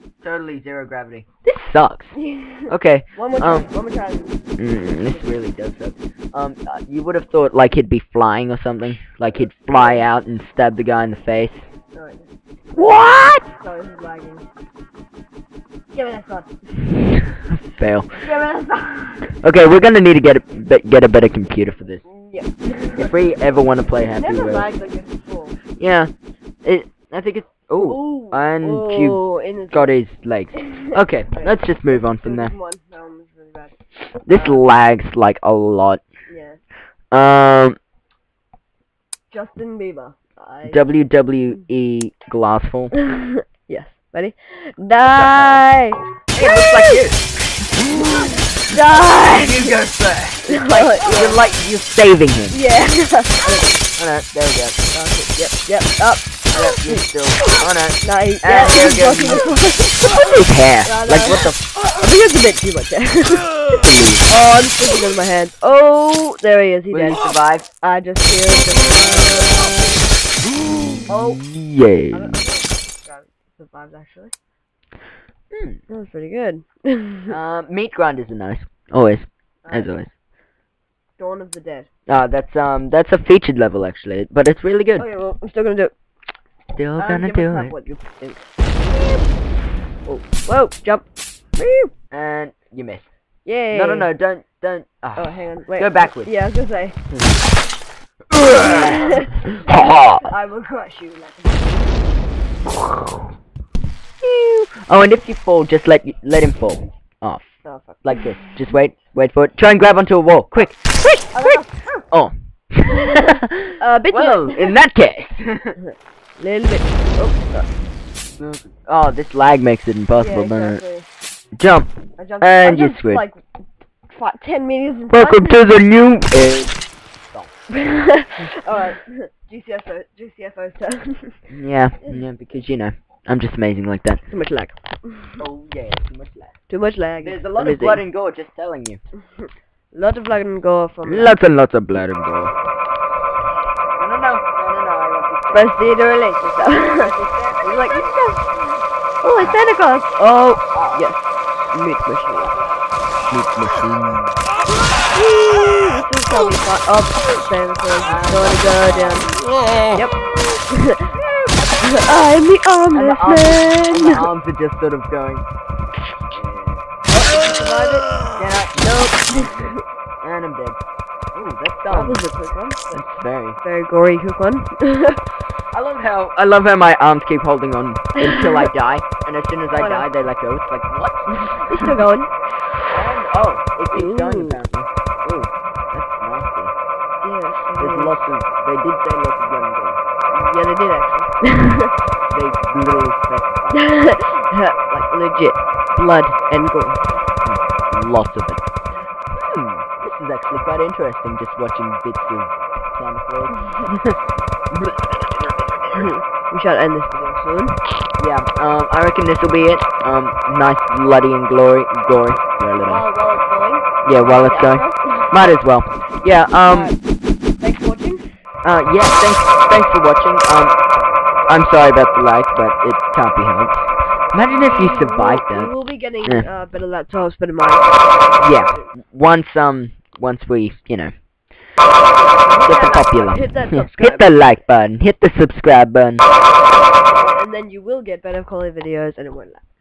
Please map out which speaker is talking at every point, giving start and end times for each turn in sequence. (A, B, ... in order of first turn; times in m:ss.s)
0:00.2-0:02.1 A
0:02.1-0:05.3 B
0:02.7-0:03.7 A
0:04.6-0:11.7 A
0:09.4-0:10.0 B
0:11.9-0:14.4 B
0:12.7-0:13.5 A
0:15.9-0:16.7 B
0:17.1-0:18.2 A
0:18.2-0:19.3 B
0:19.4-0:22.0 A
0:22.0-0:23.1 B
0:22.9-0:24.7 A
0:24.1-0:25.6 B
0:25.8-0:26.1 A
0:26.6-0:32.5 A
0:27.8-0:30.0 B
0:30.5-0:33.7 B
0:34.2-0:34.6 B
0:34.2-0:36.0 A
0:36.3-0:36.6 B
0:37.1-0:37.8 A
0:39.3-0:40.9 B
0:40.7-0:42.9 A
0:42.9-0:47.0 B
0:45.1-0:45.6 A
0:46.3-0:47.2 A
0:47.9-0:49.7 B
0:48.9-0:52.6 A
0:50.5-0:51.4 B
0:52.5-0:53.7 B
0:54.0-0:54.8 A
0:54.9-1:10.0 B
0:56.5-0:59.5 A
1:00.0-1:01.6 A
1:03.7-1:04.3 A
1:06.9-1:07.6 A
1:11.1-1:12.4 A
1:12.1-1:14.3 B
1:15.5-1:15.8 A
1:15.9-1:17.3 B
1:17.3-1:20.1 A
1:19.6-1:20.0 B
1:21.2-1:21.9 B
1:22.1-1:25.1 A
1:25.0-1:25.9 B
1:26.7-1:27.7 A
1:27.0-1:28.5 B
1:28.9-1:29.2 A
1:30.1-1:31.1 B
1:31.6-1:33.0 A
1:33.4-1:34.1 B
1:33.7-1:36.3 A
1:35.2-1:37.0 B
1:37.1-1:37.4 A
1:38.3-1:40.3 A
1:38.5-1:42.0 B
1:42.7-1:43.3 A
1:44.2-1:47.4 A
1:47.6-1:48.6 B
1:48.0-1:55.8 A
1:51.3-1:52.0 B
1:53.8-1:54.7 B
1:55.8-1:57.7 B
1:58.4-2:00.8 A
2:00.1-2:01.1 B
2:01.6-2:03.2 A
2:02.2-2:03.4 B
2:04.1-2:05.6 B
2:05.1-2:06.8 A
2:07.7-2:11.4 B
2:11.5-2:14.2 A
2:14.3-2:15.4 B
2:15.4-2:16.5 A
2:16.7-2:18.0 B
2:17.2-2:19.0 A
2:19.9-2:21.4 B
2:21.0-2:22.5 A
2:24.0-2:25.7 A
2:25.5-2:28.2 B
2:26.6-2:28.5 A
2:29.2-2:32.5 B
2:30.7-2:31.1 A
2:33.3-2:34.4 A
2:35.0-2:39.3 B
2:38.0-2:39.4 A
2:40.7-2:41.1 B
2:41.1-2:42.0 A
2:41.8-2:44.3 B
2:42.9-2:45.5 A
2:46.3-2:46.8 A
2:47.1-2:48.1 B
2:48.4-2:50.8 A
2:48.8-2:49.8 B
2:51.3-2:52.2 A
2:51.9-2:53.0 B
2:52.9-2:53.6 A
2:53.6-2:55.2 B
2:55.7-3:01.9 A
2:58.2-2:58.7 B
2:59.7-3:00.1 B
3:01.4-3:02.3 B
3:02.9-3:06.7 A
3:03.9-3:04.6 B
3:07.2-3:08.2 B
3:07.8-3:10.0 A
3:10.3-3:11.9 B
3:12.3-3:13.9 A
3:13.7-3:17.2 B
3:17.4-3:18.7 A
3:19.3-3:24.2 A
3:24.7-3:26.1 A
3:25.9-3:27.8 B
3:28.2-3:33.0 A
3:32.8-3:35.3 B
3:34.0-3:36.9 A
3:36.6-3:37.0 B
3:37.6-3:38.2 B
3:38.6-3:40.7 A
3:41.5-3:45.7 A
3:44.5-3:48.9 B
3:48.4-3:51.1 A
3:52.0-3:54.4 B
3:52.5-3:56.2 A
3:57.1-3:59.6 B